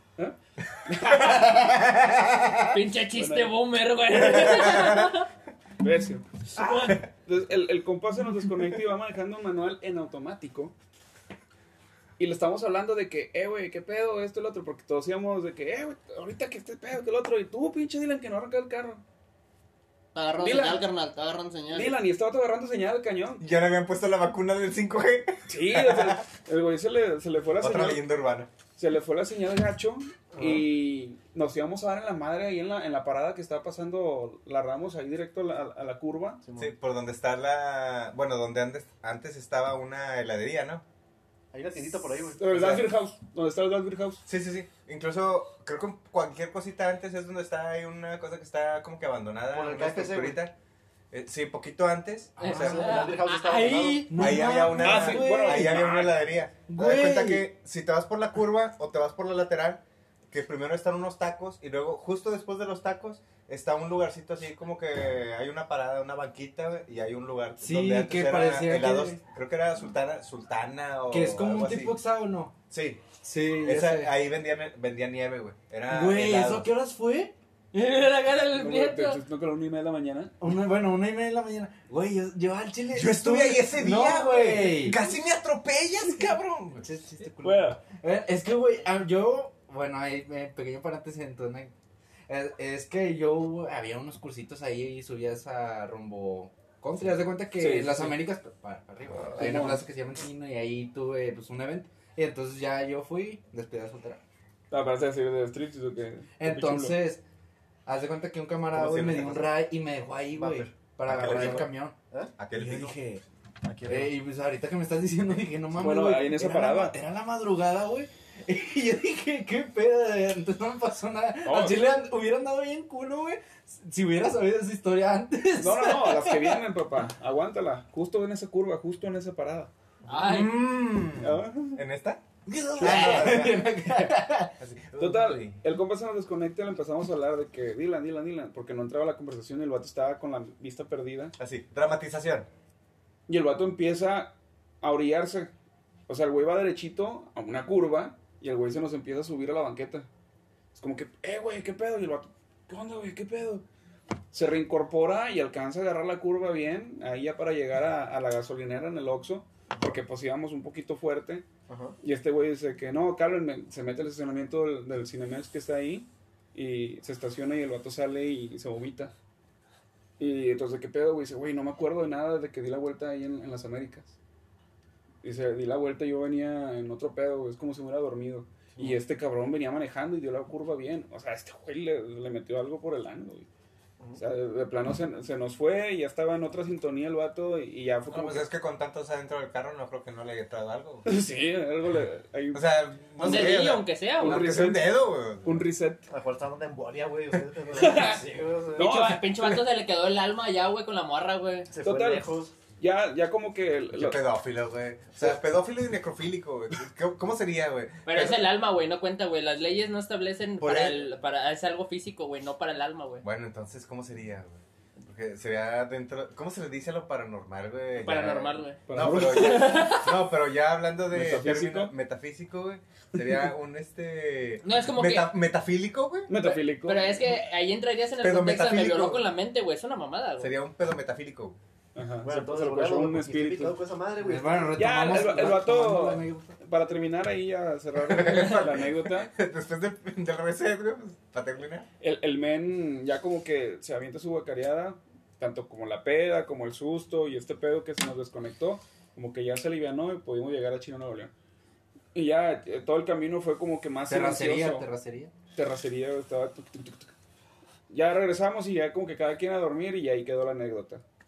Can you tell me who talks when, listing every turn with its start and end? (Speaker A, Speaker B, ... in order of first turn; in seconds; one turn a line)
Speaker A: 0.2-1.9
Speaker B: 0.6-2.8
Speaker C: 2.7-5.3
Speaker A: 3.1-3.6
Speaker B: 4.1-5.1
Speaker A: 5.8-10.7
Speaker C: 6.5-7.0
Speaker A: 12.2-19.0
Speaker C: 20.1-21.9
Speaker A: 20.4-20.9
Speaker A: 21.7-23.4
Speaker B: 23.4-26.2
Speaker A: 25.5-28.0
Speaker B: 27.6-28.5
Speaker A: 28.8-36.4
Speaker D: 30.3-30.6
Speaker D: 36.4-36.7
Speaker B: 36.6-40.8
Speaker D: 41.5-42.5
Speaker A: 42.4-44.2
Speaker B: 42.5-42.9
Speaker B: 44.2-50.5
Speaker D: 49.5-50.4
Speaker B: 51.1-52.9
Speaker E: 52.4-53.1
Speaker C: 52.4-54.1
Speaker D: 52.4-54.4
Speaker E: 53.7-55.9
Speaker B: 54.0-72.0
Speaker A: 54.7-56.2
Speaker E: 56.7-57.5
Speaker E: 67.6-69.2
Speaker E: 71.1-72.5
Speaker B: 72.7-73.0
Speaker E: 73.2-74.1
Speaker B: 73.6-76.7
Speaker E: 75.9-77.3
Speaker C: 77.7-79.2
Speaker A: 78.5-80.3
Speaker E: 80.4-85.0
Speaker B: 82.9-86.8
Speaker E: 86.8-91.7
Speaker A: 87.4-87.8
Speaker E: 92.3-104.2
Speaker A: 97.6-98.2
Speaker A: 99.1-99.8
Speaker A: 104.7-107.0
Speaker E: 106.4-107.2
Speaker E: 107.8-111.9
Speaker B: 108.7-109.5
Speaker D: 110.3-112.3
Speaker B: 111.0-111.7
Speaker B: 112.4-113.0
Speaker E: 112.5-113.2
Speaker D: 113.6-114.1
Speaker E: 113.8-126.6
Speaker A: 115.8-117.0
Speaker A: 121.4-121.8
Speaker A: 125.6-129.7
Speaker C: 130.1-130.6
Speaker B: 130.2-132.2
Speaker A: 131.2-131.8
Speaker E: 132.4-134.5
Speaker B: 132.8-133.8
Speaker B: 134.6-135.6
Speaker A: 135.0-141.3
Speaker B: 141.4-142.5
Speaker A: 143.3-145.5
Speaker A: 146.1-150.1
Speaker A: 150.7-153.6
Speaker A: 154.3-161.4
Speaker D: 161.7-161.9
Speaker A: 162.0-169.1
Speaker A: 170.2-174.2
Speaker A: 175.2-183.5
Speaker D: 178.8-179.0
Speaker A: 184.2-188.5
Speaker B: 188.1-191.1
Speaker A: 191.1-193.6
Speaker B: 192.5-195.6
Speaker C: 193.2-194.5
Speaker A: 194.2-196.1
Speaker D: 196.1-198.9
Speaker A: 197.7-199.5
Speaker C: 197.8-198.2
Speaker C: 198.7-201.7
Speaker D: 201.7-202.5
Speaker A: 201.8-204.2
Speaker B: 203.9-208.5
Speaker C: 208.1-213.2
Speaker B: 210.6-211.1
Speaker B: 213.2-226.3
Speaker C: 218.0-220.3
Speaker A: 218.9-219.8
Speaker A: 221.1-221.9
Speaker C: 224.6-225.3
Speaker A: 226.3-227.1
Speaker C: 226.4-230.5
Speaker B: 228.2-229.3
Speaker B: 230.4-231.6
Speaker A: 231.9-233.8
Speaker D: 232.2-235.2
Speaker E: 234.2-236.6
Speaker A: 234.7-239.3
Speaker B: 238.0-241.9
Speaker A: 242.0-251.3
Speaker A: 252.1-254.9
Speaker E: 254.1-255.3
Speaker A: 255.5-257.1
Speaker A: 257.9-261.0